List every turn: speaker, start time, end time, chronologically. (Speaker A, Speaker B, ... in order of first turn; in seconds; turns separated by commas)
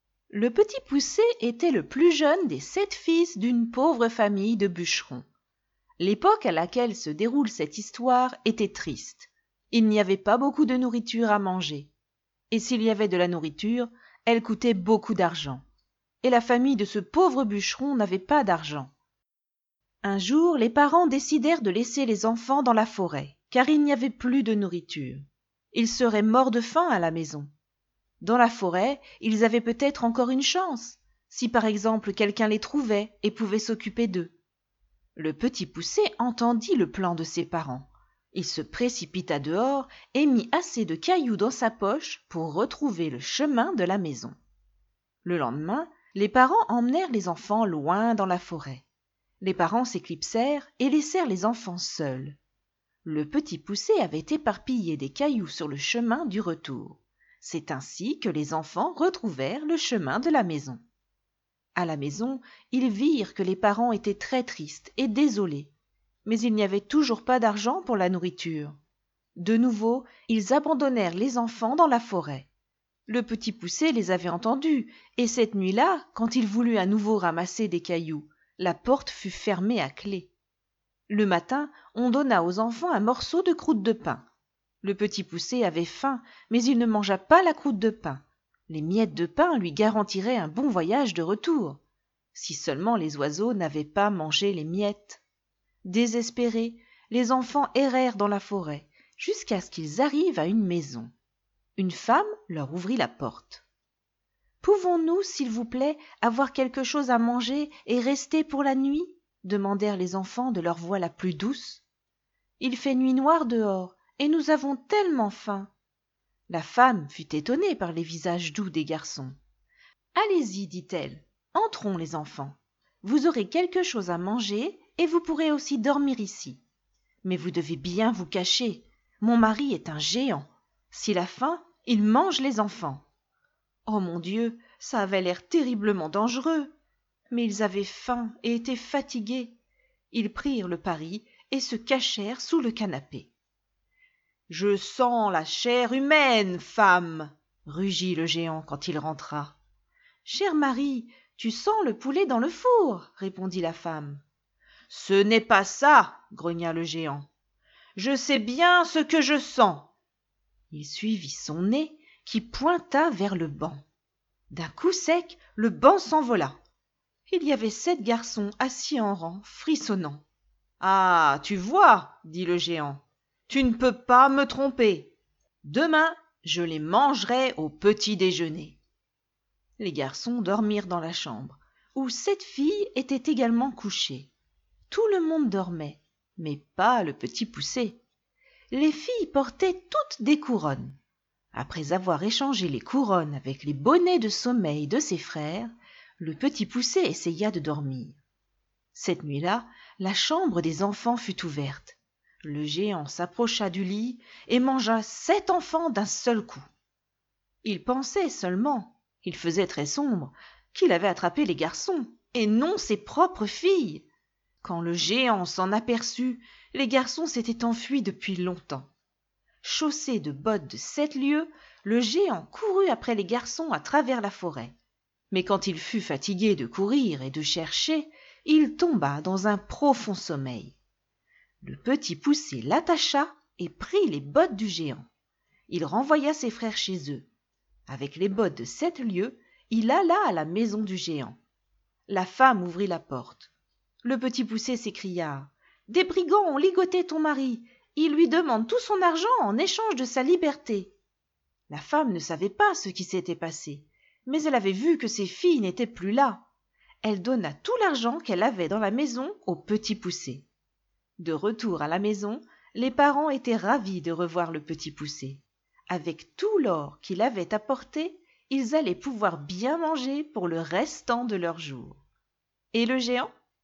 Speaker A: 0.3-5.2, Speaker A: 6.0-11.9, Speaker A: 12.5-15.6, Speaker A: 16.2-18.9, Speaker A: 20.0-27.5, Speaker A: 28.2-34.3, Speaker A: 35.2-44.3, Speaker A: 45.2-48.8, Speaker A: 49.4-52.4, Speaker A: 53.0-60.8, Speaker A: 61.7-65.7, Speaker A: 66.2-68.8, Speaker A: 69.4-72.5, Speaker A: 73.1-80.3, Speaker A: 81.1-84.3, Speaker A: 84.8-91.8, Speaker A: 92.3-95.2, Speaker A: 95.8-101.1, Speaker A: 101.8-103.7, Speaker A: 104.6-111.8, Speaker A: 112.6-115.7, Speaker A: 116.5-119.3, Speaker A: 120.1-126.6, Speaker A: 127.2-133.0, Speaker A: 133.9-136.7, Speaker A: 137.3-139.6, Speaker A: 140.1-143.3, Speaker A: 144.5-149.6, Speaker A: 150.2-154.2, Speaker A: 154.9-157.3, Speaker A: 157.9-159.9, Speaker A: 160.7-163.8, Speaker A: 164.5-166.6, Speaker A: 167.3-170.2, Speaker A: 170.8-178.8, Speaker A: 179.8-184.3, Speaker A: 184.9-188.0, Speaker A: 188.7-191.0, Speaker A: 191.5-198.2, Speaker A: 198.9-206.6, Speaker A: 207.6-214.1, Speaker A: 214.6-218.9, Speaker A: 219.6-224.7, Speaker A: 225.3-230.8, Speaker A: 231.6-235.1, Speaker A: 235.7-237.3, Speaker A: 237.9-241.4, Speaker A: 242.1-243.5, Speaker A: 244.0-250.9, Speaker A: 251.7-256.4, Speaker A: 257.0-260.5, Speaker A: 261.2-272.0, Speaker A: 272.7-273.3